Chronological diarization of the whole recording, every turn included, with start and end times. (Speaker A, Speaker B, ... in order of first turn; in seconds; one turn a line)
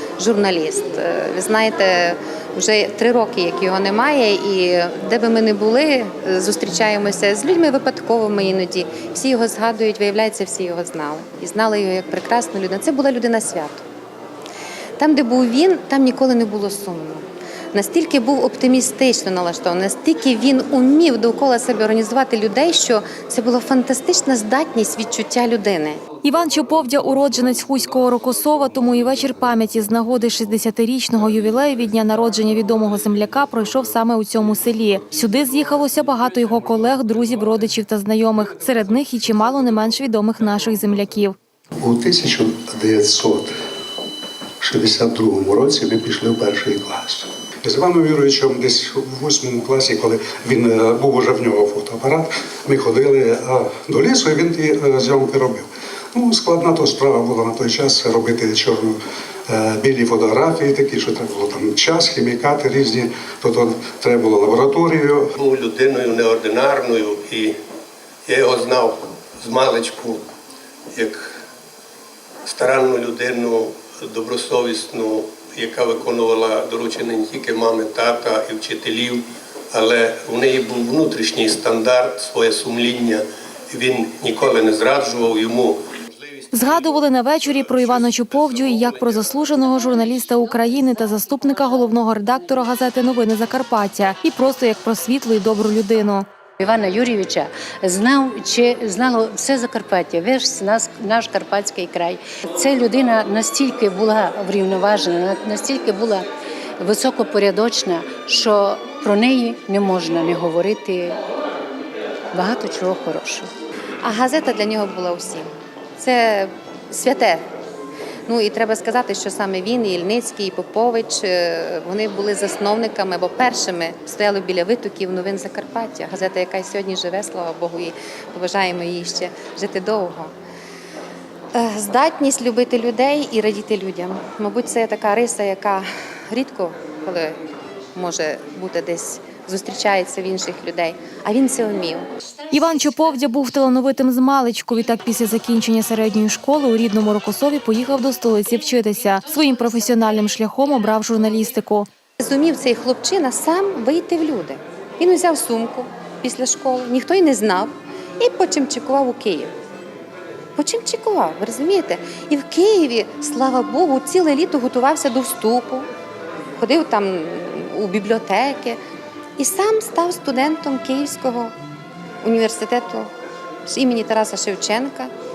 Speaker A: 0.2-13.8
Speaker A: 15.0-26.0
Speaker B: 26.2-41.4
Speaker C: 41.8-43.5
Speaker C: 44.6-65.3
Speaker D: 65.3-67.5
Speaker D: 68.2-70.2
Speaker D: 70.9-71.2
Speaker D: 72.4-85.8
Speaker B: 86.5-96.2
Speaker E: 96.6-106.2
Speaker E: 106.8-111.2
Speaker E: 112.3-113.5
Speaker A: 114.0-117.4
Speaker A: 118.3-130.3
Speaker A: 131.5-137.4
Speaker A: 137.9-142.1
Speaker B: 142.5-151.9
Speaker A: 152.2-159.5
Speaker A: 160.6-165.9
Speaker A: 166.6-168.8
Speaker A: 169.4-171.5
Speaker A: 172.2-173.1
Speaker A: 173.7-175.1